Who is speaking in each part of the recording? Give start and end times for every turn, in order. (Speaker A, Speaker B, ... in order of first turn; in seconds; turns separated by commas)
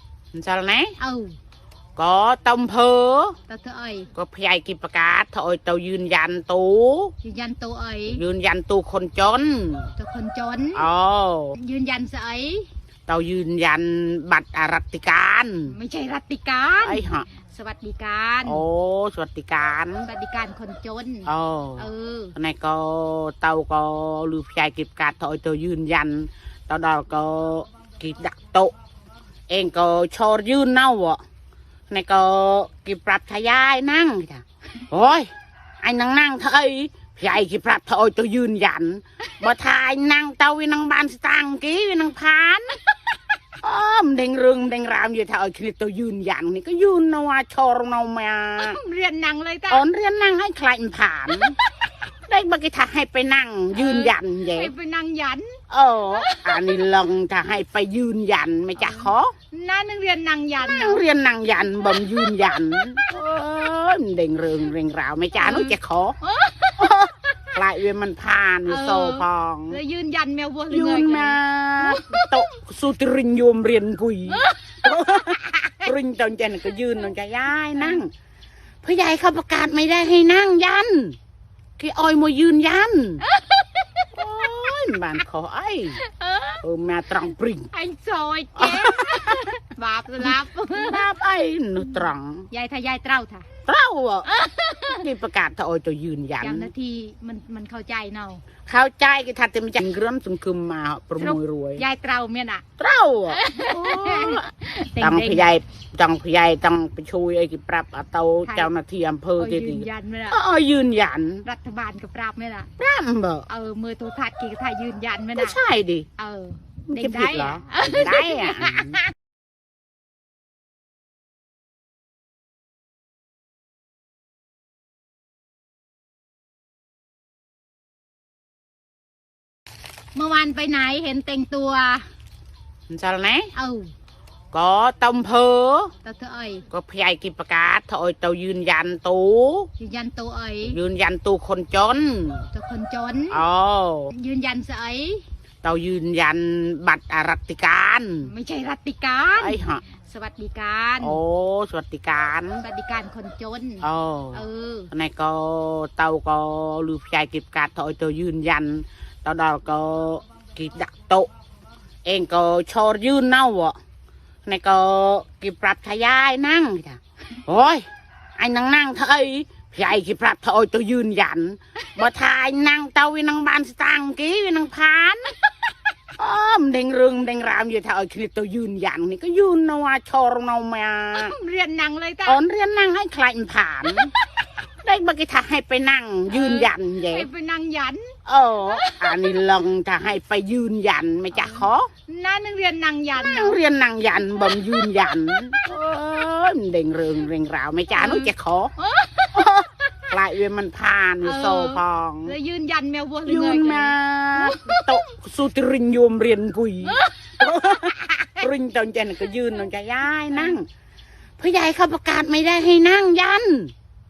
Speaker A: 0.3-1.0, Speaker B: 1.0-1.4, Speaker A: 2.0-3.4, Speaker B: 3.5-4.1, Speaker A: 4.2-7.1, Speaker B: 7.2-8.2, Speaker A: 8.1-9.9, Speaker B: 10.0-10.9, Speaker A: 10.8-11.6, Speaker B: 11.6-12.7, Speaker A: 13.1-15.8, Speaker B: 15.7-18.6, Speaker A: 16.8-17.3, Speaker A: 18.4-20.1, Speaker B: 20.1-22.4, Speaker A: 21.3-28.7, Speaker A: 29.5-31.2, Speaker A: 31.9-35.3, Speaker A: 35.8-42.8, Speaker A: 43.6-48.8, Speaker B: 48.6-49.9, Speaker A: 49.7-51.6, Speaker A: 52.3-54.7, Speaker B: 53.8-56.8, Speaker A: 55.7-59.3, Speaker B: 58.8-61.0, Speaker A: 60.6-66.2, Speaker B: 65.4-67.4, Speaker A: 66.8-69.8, Speaker B: 68.7-72.4, Speaker A: 70.7-78.1, Speaker B: 74.3-75.8, Speaker B: 77.8-78.0, Speaker A: 78.8-81.2, Speaker A: 81.8-83.2, Speaker B: 83.3-84.0, Speaker A: 84.2-86.0, Speaker B: 86.0-86.6, Speaker A: 86.6-87.7, Speaker B: 87.7-91.1, Speaker A: 88.6-89.4, Speaker A: 90.2-92.5, Speaker B: 91.9-93.5, Speaker A: 93.7-94.3, Speaker B: 94.2-95.1, Speaker A: 94.9-96.7, Speaker B: 96.4-98.4, Speaker A: 98.7-101.8, Speaker B: 101.2-102.7, Speaker A: 102.8-104.5, Speaker B: 103.3-105.5, Speaker A: 105.0-111.5, Speaker B: 108.5-108.7, Speaker B: 109.4-110.4, Speaker B: 111.4-112.7, Speaker A: 112.8-113.5, Speaker B: 113.5-115.6, Speaker A: 115.3-116.1, Speaker B: 116.2-119.1, Speaker A: 116.9-119.0, Speaker B: 130.2-132.1, Speaker A: 132.9-133.5, Speaker B: 133.6-133.9, Speaker A: 134.5-135.9, Speaker B: 136.0-136.7, Speaker A: 136.7-139.7, Speaker B: 139.8-140.8, Speaker A: 140.7-142.5, Speaker B: 142.5-143.4, Speaker A: 143.3-144.1, Speaker B: 144.1-145.2, Speaker A: 145.6-148.3, Speaker B: 148.2-151.2, Speaker A: 149.4-149.9, Speaker A: 151.0-152.6, Speaker B: 152.6-154.9, Speaker A: 153.8-161.3, Speaker A: 162.1-163.8, Speaker A: 164.5-167.9, Speaker A: 168.4-175.3, Speaker A: 176.2-181.4, Speaker B: 181.1-182.4, Speaker A: 182.2-184.1, Speaker A: 184.8-187.3, Speaker B: 186.3-188.2, Speaker A: 188.3-191.9, Speaker B: 188.7-189.2, Speaker B: 191.3-193.6, Speaker A: 193.2-198.7, Speaker B: 197.9-199.7, Speaker A: 199.3-202.3, Speaker B: 201.2-204.9, Speaker A: 203.3-210.7, Speaker B: 206.9-208.4, Speaker B: 210.3-210.6, Speaker A: 211.4-213.7